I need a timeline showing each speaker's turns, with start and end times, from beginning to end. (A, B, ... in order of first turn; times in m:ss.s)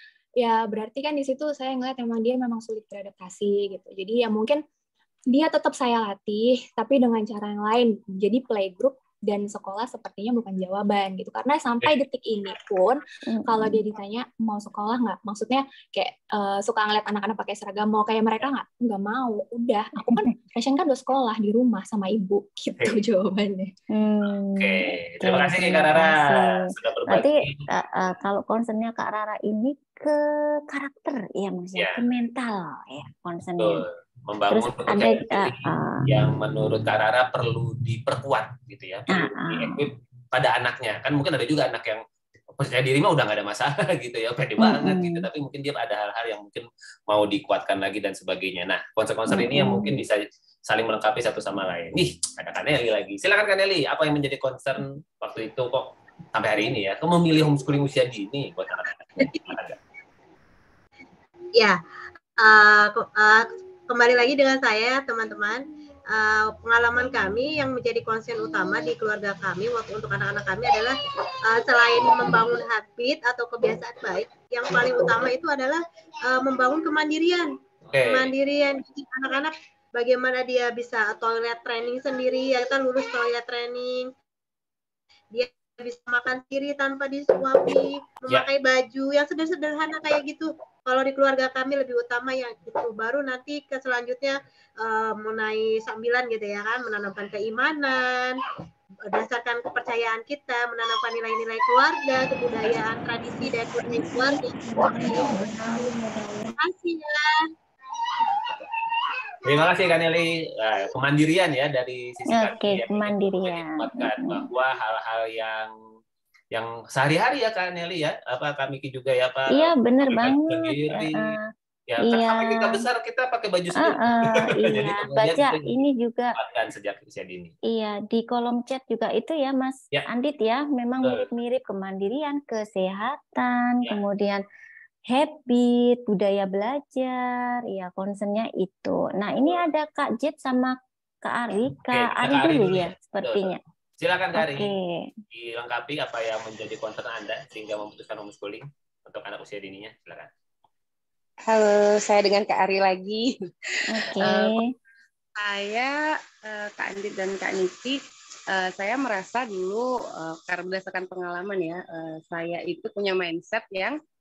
0:00.4-0:04.6 A
0:05.3-0:23.7 A
0:13.3-0:13.8 B
0:23.9-0:33.8 B
0:24.6-0:27.6 C
0:31.8-0:32.0 C
0:33.6-0:42.0 C
0:34.5-0:36.1 B
0:39.1-0:39.8 B
0:42.6-0:59.8 C
0:44.6-0:45.2 B
0:49.3-0:50.0 B
1:02.4-1:17.5 D
1:17.9-1:18.3 C
1:18.0-1:24.1 D
1:25.3-1:38.4 D
1:39.0-1:45.3 D
1:44.8-1:46.5 B
1:46.6-1:47.4 D
1:49.4-1:55.7 C
1:52.3-1:54.4 B
1:56.5-2:01.4 C
1:59.5-2:01.5 B
2:01.9-2:05.7 C
2:02.0-2:02.8 B
2:03.8-2:06.4 B
2:06.4-2:07.5 C
2:07.6-2:14.4 B
2:15.1-2:23.6 B
2:21.9-2:23.5 C
2:24.0-2:24.7 C
2:24.4-2:25.1 B
2:25.3-2:30.3 C
2:31.4-2:34.6 E
2:33.9-2:34.6 B
2:35.4-2:38.0 E
2:38.5-2:44.0 E